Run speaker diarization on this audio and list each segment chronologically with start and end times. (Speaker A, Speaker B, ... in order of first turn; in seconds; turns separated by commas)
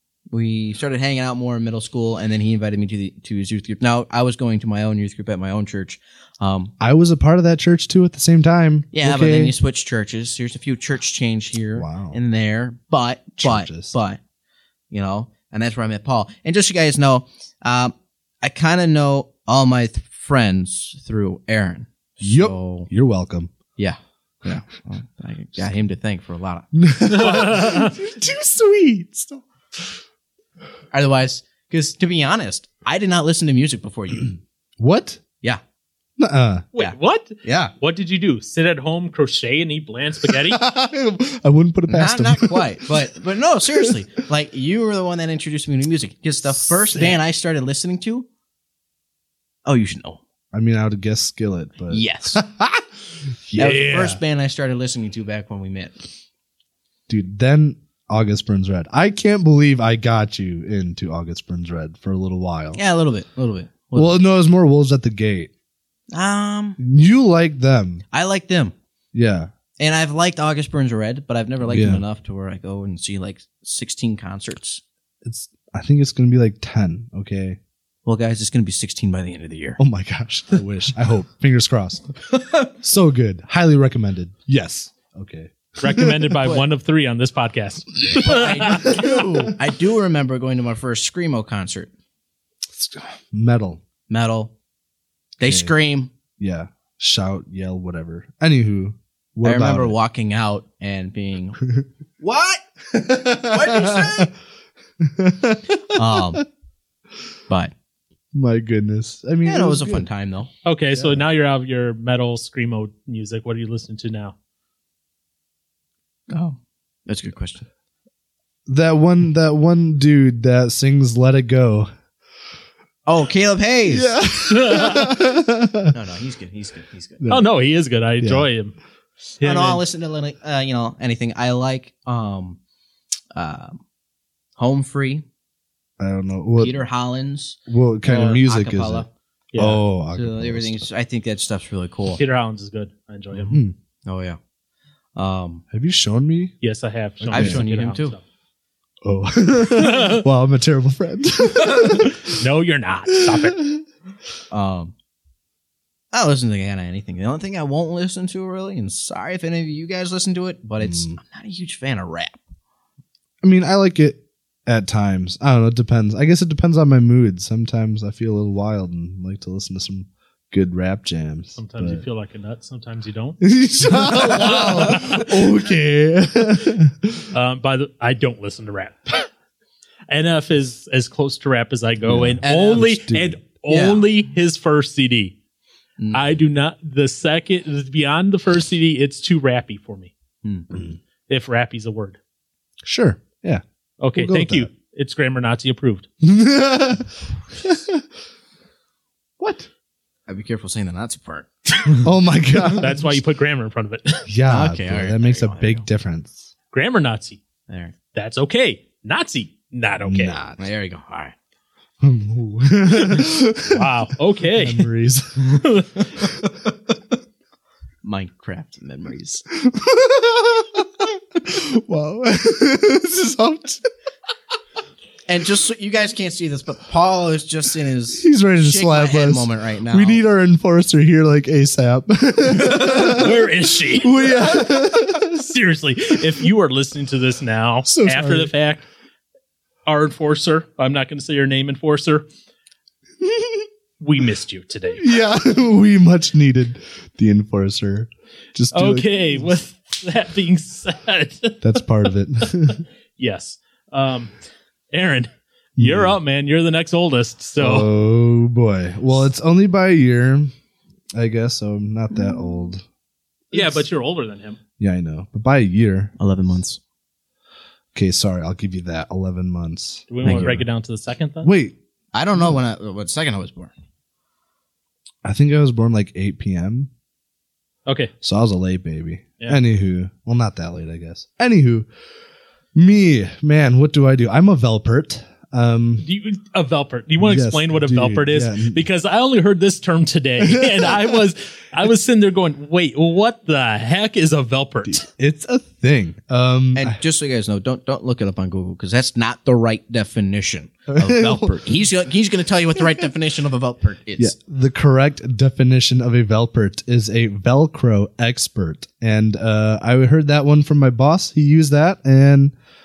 Speaker A: 0.3-6.7, Speaker B: 6.8-9.5, Speaker A: 8.9-14.2, Speaker B: 11.8-12.2, Speaker B: 13.4-13.9, Speaker A: 14.9-22.9, Speaker B: 22.2-23.5, Speaker A: 23.8-26.7, Speaker B: 26.7-29.4, Speaker C: 27.1-27.9, Speaker A: 30.9-34.4, Speaker B: 34.8-35.2, Speaker B: 36.2-36.7, Speaker C: 36.7-40.6, Speaker A: 36.8-37.7, Speaker B: 40.3-43.0, Speaker A: 41.9-48.3, Speaker B: 46.9-47.2, Speaker A: 49.6-50.2, Speaker B: 50.5-52.9, Speaker A: 51.9-52.4, Speaker B: 53.5-54.2, Speaker A: 53.5-56.1, Speaker B: 57.1-62.8, Speaker A: 62.7-64.2, Speaker B: 63.9-65.5, Speaker A: 66.1-66.8, Speaker B: 66.8-68.0, Speaker A: 68.1-68.7, Speaker B: 69.1-69.5, Speaker A: 69.8-74.8, Speaker B: 71.7-72.0, Speaker B: 75.2-77.6, Speaker A: 78.0-79.8, Speaker B: 79.8-82.0, Speaker B: 82.8-86.4, Speaker C: 85.8-89.0, Speaker A: 88.1-91.9, Speaker B: 88.7-89.5, Speaker B: 92.7-93.8, Speaker A: 94.1-94.5, Speaker A: 95.4-96.1, Speaker B: 95.4-95.7, Speaker B: 96.4-99.9, Speaker A: 99.4-101.6, Speaker A: 102.2-104.3, Speaker B: 102.9-104.3, Speaker B: 105.0-106.4, Speaker A: 105.9-106.4, Speaker B: 108.3-110.1, Speaker A: 109.4-110.5, Speaker C: 110.6-114.3, Speaker B: 110.9-111.2, Speaker A: 116.3-117.7, Speaker B: 118.7-121.9, Speaker A: 123.0-124.2, Speaker B: 123.9-126.0, Speaker C: 124.4-125.1, Speaker A: 125.9-127.3, Speaker B: 127.2-127.5, Speaker C: 127.3-128.8, Speaker B: 128.2-128.5, Speaker C: 129.4-129.8, Speaker A: 129.4-132.6, Speaker A: 133.3-133.8, Speaker A: 134.6-135.2, Speaker B: 136.0-136.8, Speaker A: 136.6-139.1, Speaker B: 137.7-140.9, Speaker C: 139.5-139.8, Speaker A: 140.1-142.2, Speaker C: 142.2-143.6, Speaker B: 143.5-143.7, Speaker A: 144.1-144.4, Speaker A: 145.2-145.6, Speaker B: 145.7-146.5, Speaker C: 146.6-148.2, Speaker B: 147.2-147.6, Speaker A: 147.3-148.1, Speaker B: 149.0-152.4, Speaker C: 149.7-150.2, Speaker C: 151.6-153.6, Speaker B: 153.1-153.8, Speaker A: 154.5-154.9, Speaker A: 156.1-162.4, Speaker B: 160.8-161.2, Speaker B: 163.4-172.0, Speaker C: 171.6-175.3, Speaker B: 173.4-177.2, Speaker C: 177.3-179.3, Speaker C: 180.1-185.3, Speaker B: 182.0-183.4, Speaker A: 182.4-182.9, Speaker A: 183.7-184.1, Speaker A: 186.0-186.3, Speaker C: 186.1-190.1, Speaker A: 190.4-190.7, Speaker B: 190.7-191.0, Speaker C: 191.3-192.2, Speaker B: 192.8-193.6, Speaker C: 194.0-196.1, Speaker B: 194.1-194.7, Speaker B: 196.2-198.0, Speaker B: 199.4-199.7, Speaker A: 200.3-202.0, Speaker B: 202.0-203.2, Speaker C: 202.8-204.3, Speaker B: 204.3-206.5, Speaker A: 204.4-205.8, Speaker C: 206.7-207.4, Speaker A: 207.7-207.9, Speaker C: 208.1-210.4, Speaker B: 210.0-210.6, Speaker A: 210.6-211.3, Speaker B: 212.0-213.9, Speaker C: 212.9-214.9, Speaker B: 214.5-216.3, Speaker C: 215.4-216.1, Speaker A: 218.0-219.4, Speaker B: 219.5-223.8, Speaker A: 225.3-230.2, Speaker B: 228.2-235.5, Speaker C: 232.6-238.8, Speaker B: 237.8-238.5, Speaker C: 239.8-242.2, Speaker B: 243.2-243.7, Speaker C: 244.0-245.1, Speaker B: 245.0-249.4, Speaker C: 248.7-251.8, Speaker B: 251.6-252.8, Speaker C: 252.4-254.3, Speaker C: 254.9-257.9, Speaker B: 255.8-256.2, Speaker B: 257.6-260.5, Speaker B: 261.1-262.8, Speaker C: 263.5-264.6, Speaker B: 263.5-263.8, Speaker B: 264.8-266.1, Speaker A: 266.2-266.8, Speaker B: 267.9-270.6, Speaker C: 270.1-271.5, Speaker A: 270.2-270.5, Speaker B: 271.4-271.8, Speaker A: 272.1-273.7, Speaker B: 275.2-276.9, Speaker C: 277.9-278.1, Speaker B: 278.2-281.9, Speaker B: 282.7-286.0, Speaker C: 286.0-295.1, Speaker B: 287.2-288.8, Speaker B: 290.4-291.2, Speaker B: 294.8-297.0, Speaker A: 296.7-304.4, Speaker B: 300.9-301.6, Speaker B: 304.2-312.5